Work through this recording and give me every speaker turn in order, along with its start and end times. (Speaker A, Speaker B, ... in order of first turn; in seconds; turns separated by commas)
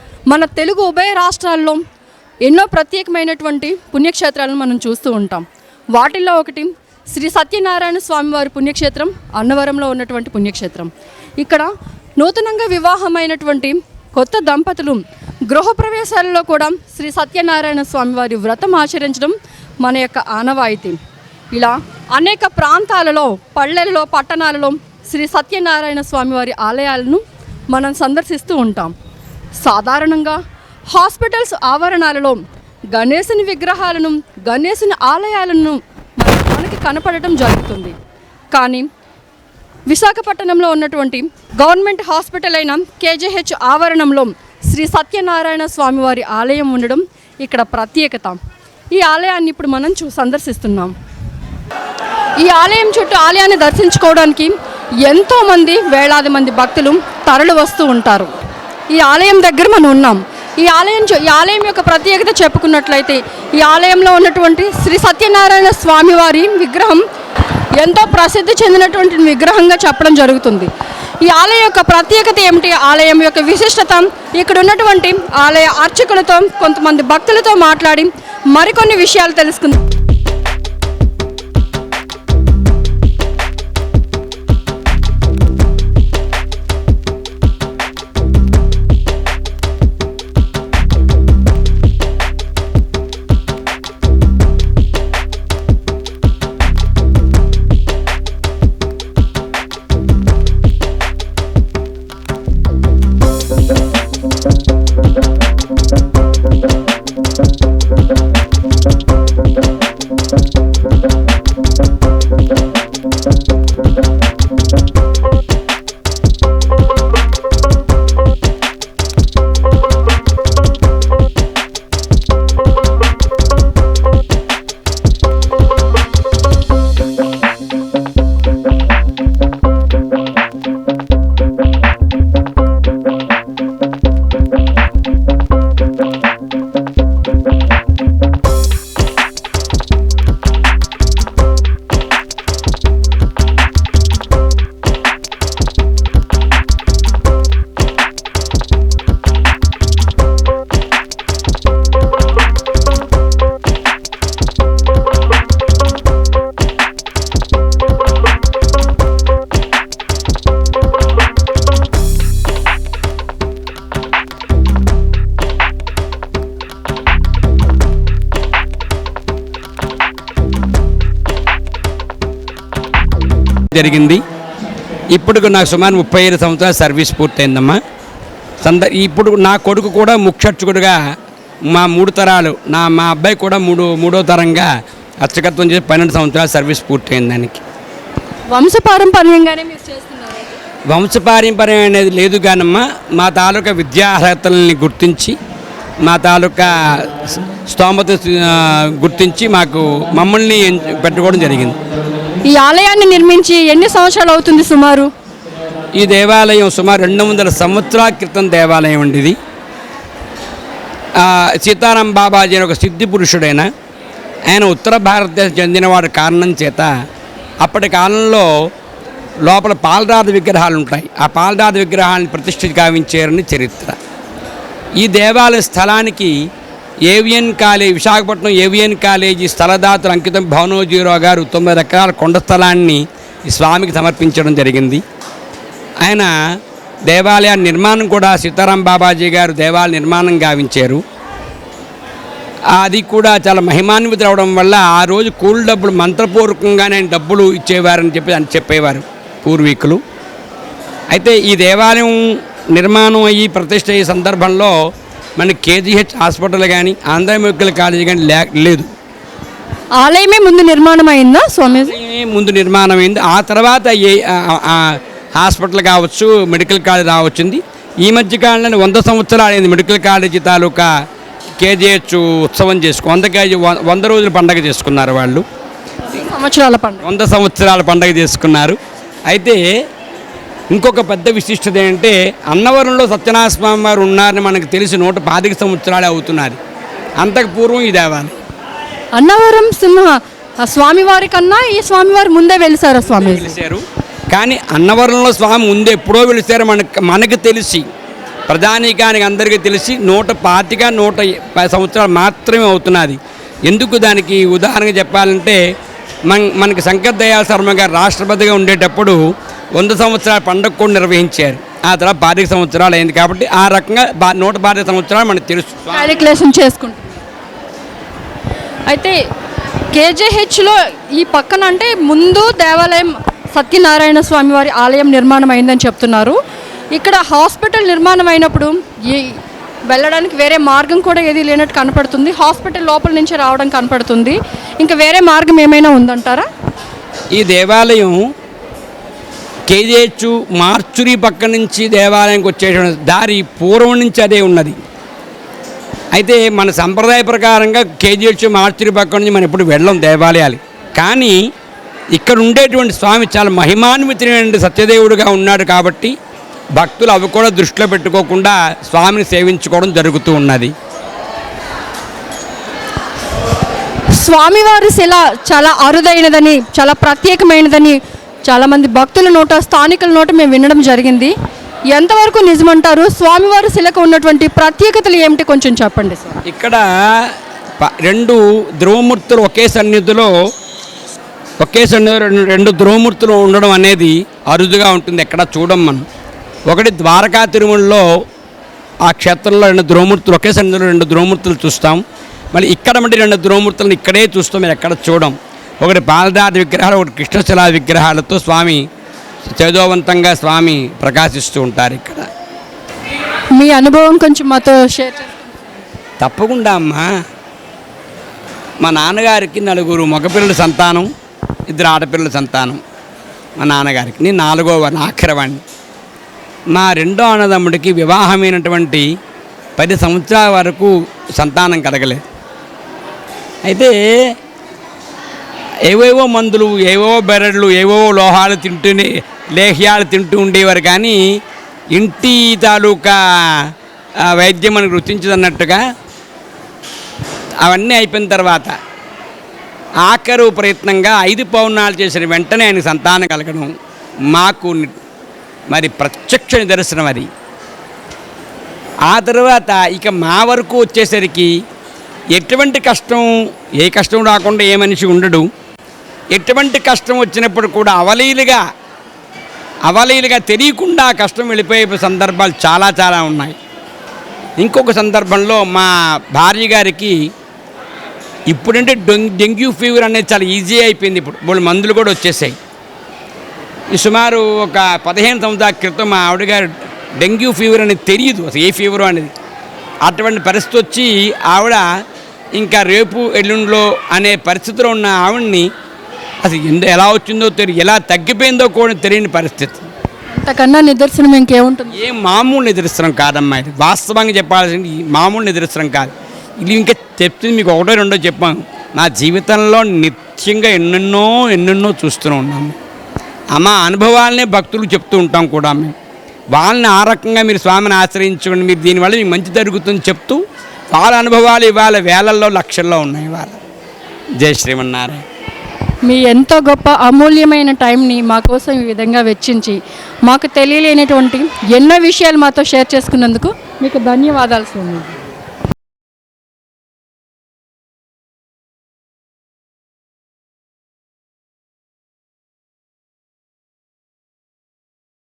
Speaker A: 0.3-1.8, Speaker A: 2.4-21.0, Speaker A: 21.5-28.9, Speaker A: 29.6-32.4, Speaker A: 32.9-38.0, Speaker A: 38.5-38.9, Speaker A: 39.9-48.4, Speaker A: 48.9-50.9, Speaker A: 52.4-54.5, Speaker A: 55.0-58.3, Speaker A: 58.9-67.0, Speaker A: 67.8-70.7, Speaker A: 71.2-79.8, Speaker B: 173.7-174.2, Speaker B: 175.1-177.8, Speaker B: 178.6-181.0, Speaker B: 181.7-184.7, Speaker B: 185.2-187.6, Speaker A: 188.5-190.6, Speaker B: 190.9-195.4, Speaker B: 196.0-196.7, Speaker B: 197.3-201.8, Speaker A: 202.5-205.1, Speaker B: 205.9-209.4, Speaker B: 211.2-213.7, Speaker B: 214.5-216.9, Speaker B: 217.6-218.5, Speaker B: 219.5-224.0, Speaker B: 225.0-226.3, Speaker B: 227.1-235.0, Speaker B: 236.0-236.3, Speaker B: 237.1-241.0, Speaker B: 242.8-250.0, Speaker B: 251.1-254.7, Speaker B: 255.4-258.9, Speaker A: 260.0-261.9, Speaker B: 261.9-270.9, Speaker B: 271.6-275.4, Speaker A: 276.1-277.1, Speaker B: 277.0-278.8, Speaker B: 279.3-279.6, Speaker B: 280.7-286.6, Speaker B: 287.2-288.4, Speaker A: 289.2-293.6, Speaker B: 293.1-297.9, Speaker B: 298.5-305.6, Speaker B: 306.3-309.2, Speaker B: 309.8-316.1, Speaker A: 315.9-317.2, Speaker A: 318.9-319.2, Speaker A: 319.9-326.4, Speaker A: 326.9-329.4, Speaker A: 329.9-336.5, Speaker B: 337.3-338.2, Speaker B: 339.7-344.8, Speaker B: 346.1-351.4, Speaker B: 352.1-356.1, Speaker B: 356.8-360.7, Speaker A: 364.1-371.3, Speaker A: 371.9-376.4, Speaker B: 376.5-376.8, Speaker B: 377.8-380.3, Speaker B: 381.6-386.1, Speaker B: 386.7-388.0, Speaker B: 389.1-392.0, Speaker B: 392.5-398.8, Speaker B: 399.6-402.3, Speaker A: 403.6-405.8, Speaker B: 406.2-407.1, Speaker B: 408.8-411.1, Speaker B: 411.7-412.8, Speaker B: 413.6-415.6, Speaker B: 416.7-419.1, Speaker B: 419.8-422.2, Speaker B: 423.6-424.0, Speaker B: 425.9-431.2, Speaker B: 431.9-433.2, Speaker B: 434.2-435.8, Speaker B: 437.6-438.7, Speaker B: 440.0-443.7, Speaker B: 444.3-445.0, Speaker B: 445.7-447.3, Speaker B: 449.1-451.5, Speaker B: 452.4-455.5, Speaker B: 456.3-458.6, Speaker B: 459.9-463.6, Speaker B: 464.6-467.2, Speaker B: 468.5-472.6, Speaker B: 473.9-479.3, Speaker B: 480.0-481.8, Speaker B: 482.6-485.7, Speaker B: 486.4-489.9, Speaker A: 490.3-492.0, Speaker B: 491.9-502.8, Speaker B: 503.6-505.9, Speaker B: 506.5-513.6, Speaker B: 514.4-515.2, Speaker A: 516.1-525.1